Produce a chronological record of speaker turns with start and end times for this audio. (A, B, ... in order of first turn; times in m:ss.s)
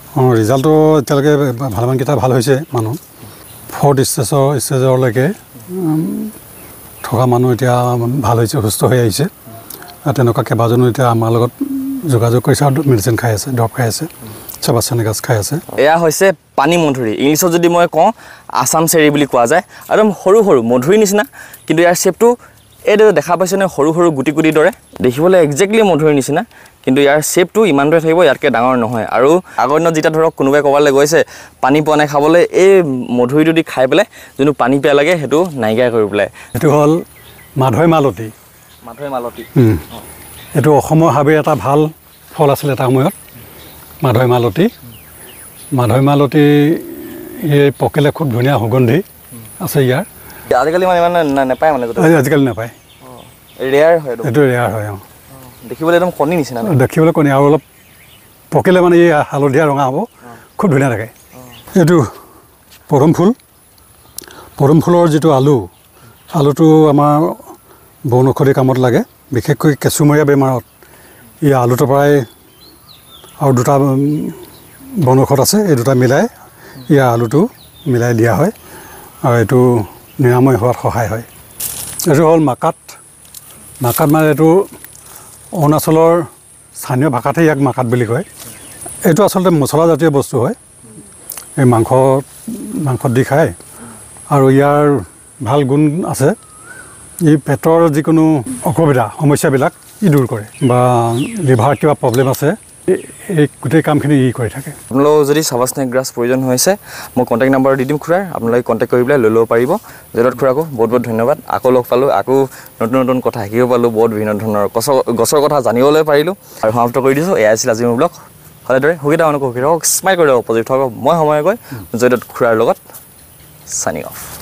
0:00.2-0:03.0 A
0:03.7-0:06.3 A
0:07.0-0:09.3 A
0:10.1-0:14.1 A
0:14.6-0:15.6 A
0:15.7-0:22.4 B
0:22.9-0:36.3 B
0:36.6-0:37.0 A
0:37.6-0:38.3 A
0:38.8-0:39.5 B
0:39.6-0:39.8 A
0:40.6-0:43.2 A
0:44.0-0:44.7 A
0:45.8-0:49.0 A
0:49.6-0:50.1 A
0:50.5-0:52.2 B
0:52.0-0:52.7 A
0:53.1-0:54.3 B
0:54.2-0:55.0 A
0:55.6-0:56.7 B
0:56.6-0:57.6 A
0:58.5-1:01.1 A
1:01.8-1:02.1 A
1:02.9-1:03.4 A
1:04.6-1:05.7 A
1:06.3-1:07.5 A
1:08.1-1:10.6 A
1:11.4-1:12.3 A
1:13.4-1:14.4 A
1:15.0-1:16.3 A
1:16.9-1:18.5 A
1:19.2-1:21.3 A
1:22.1-1:23.0 A
1:23.8-1:24.7 A
1:25.6-1:28.3 A
1:29.0-1:30.6 A
1:31.6-1:33.6 A
1:34.3-1:36.4 A
1:37.2-1:44.8 A
1:44.9-2:02.8 B
2:03.7-2:04.3 B